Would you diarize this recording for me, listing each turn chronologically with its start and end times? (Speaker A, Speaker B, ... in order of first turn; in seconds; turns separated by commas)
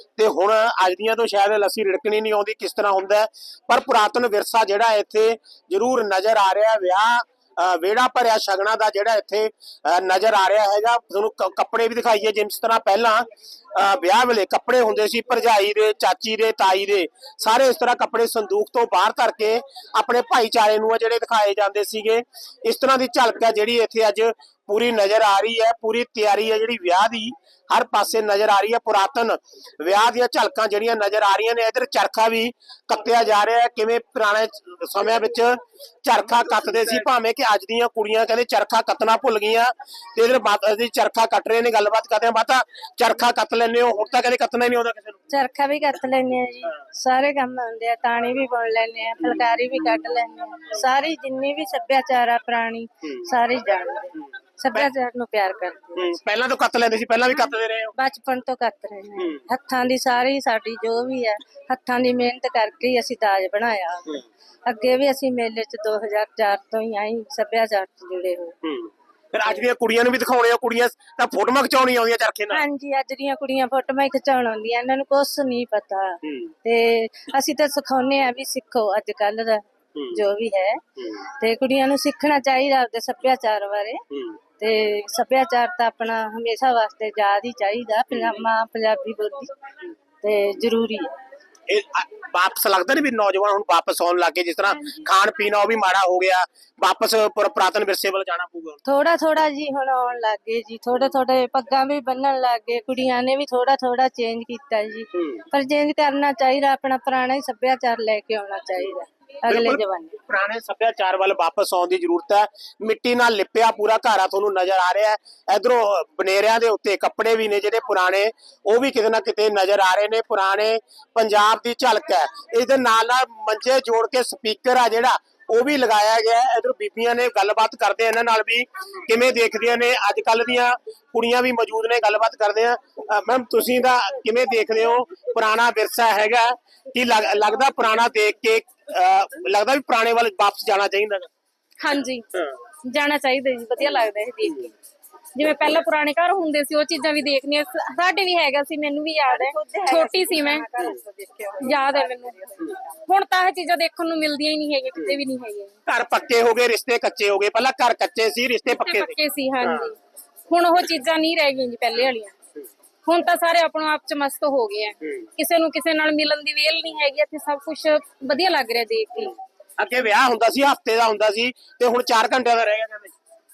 Speaker A: 0.2-45.2, Speaker B: 45.3-56.0, Speaker A: 49.2-50.0, Speaker A: 55.9-57.9, Speaker B: 58.0-68.5, Speaker A: 59.2-59.4, Speaker A: 68.6-72.6, Speaker B: 72.5-84.0, Speaker A: 76.2-76.5, Speaker A: 79.9-80.2, Speaker A: 84.1-84.4, Speaker B: 84.6-89.5, Speaker A: 88.1-88.4, Speaker B: 90.2-91.1, Speaker A: 91.7-98.8, Speaker B: 98.9-110.2, Speaker A: 105.1-105.4, Speaker A: 109.5-141.3, Speaker C: 141.8-142.2, Speaker C: 142.9-144.7, Speaker A: 144.4-144.7, Speaker C: 145.3-150.7, Speaker B: 149.3-151.9, Speaker C: 151.6-152.4, Speaker C: 153.1-155.7, Speaker A: 155.9-159.9, Speaker C: 158.7-160.0, Speaker C: 160.5-162.3, Speaker C: 163.1-169.3, Speaker A: 169.8-173.1